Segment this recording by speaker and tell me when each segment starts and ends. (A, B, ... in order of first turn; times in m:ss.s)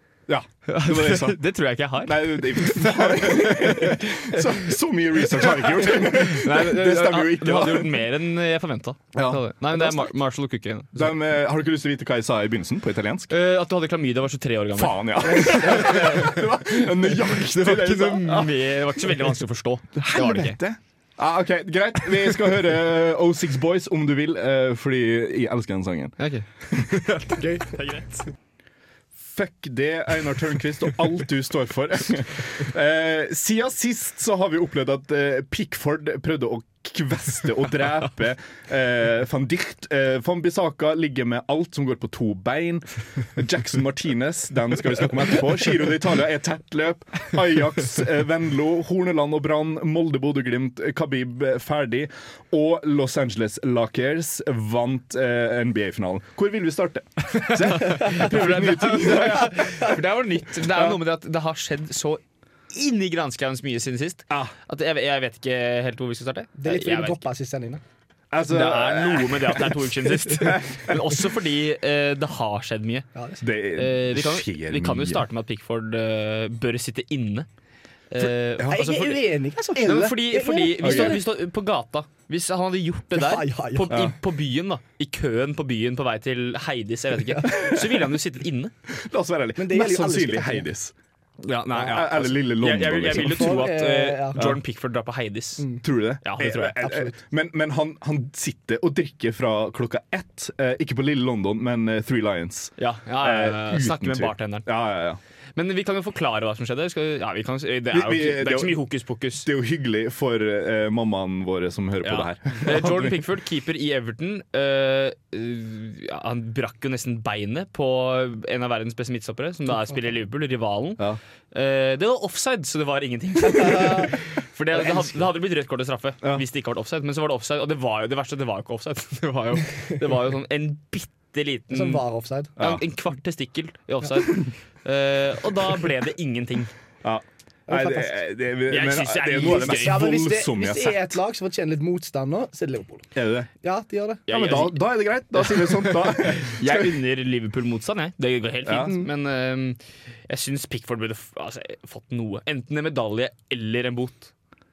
0:00.3-0:01.4 A
0:00.7-0:03.2 B
0:02.0-0:08.1 A
0:06.1-0:11.1 B
0:09.1-0:10.1 A
0:10.9-0:13.3 A
0:13.3-0:20.6 B
0:14.7-0:19.0 A
0:15.4-0:16.2 C
0:19.9-0:26.2 A
0:26.2-0:28.2 B
0:27.4-0:27.7 C
0:29.2-1:00.0 A
0:57.3-1:07.2 B
0:57.8-0:58.3 C
1:00.6-1:01.0 A
1:04.3-1:04.5 A
1:06.6-1:07.8 C
1:08.3-1:11.0 A
1:08.5-1:13.1 B
1:13.1-1:13.4 C
1:13.4-1:15.3 A
1:13.7-1:17.5 B
1:18.1-1:19.2 B
1:18.2-1:19.0 A
1:18.7-1:21.3 C
1:19.7-1:20.2 A
1:19.8-1:28.7 B
1:20.8-1:21.2 A
1:23.1-1:24.1 C
1:28.9-1:30.9 A
1:29.6-1:30.7 C
1:31.4-1:35.7 B
1:31.7-1:32.0 C
1:31.8-1:33.6 A
1:33.1-1:34.5 C
1:35.6-1:35.8 C
1:35.8-1:45.2 A
1:36.2-1:36.8 B
1:36.7-1:37.1 C
1:42.8-1:44.6 B
1:45.6-1:49.5 B
1:47.9-1:48.8 A
1:49.4-1:53.2 A
1:52.0-2:12.0 B
2:03.6-2:04.1 C
2:04.7-2:05.2 C
2:11.7-2:12.5 C
2:12.6-2:16.7 B
2:12.6-2:12.8 A
2:17.0-2:21.2 A
2:17.7-2:18.1 C
2:18.7-2:20.0 B
2:19.4-2:23.1 C
2:23.1-2:23.5 A
2:23.6-2:24.2 C
2:24.3-2:24.8 B
2:24.3-2:26.9 A
2:25.3-2:34.3 B
2:28.6-2:29.0 A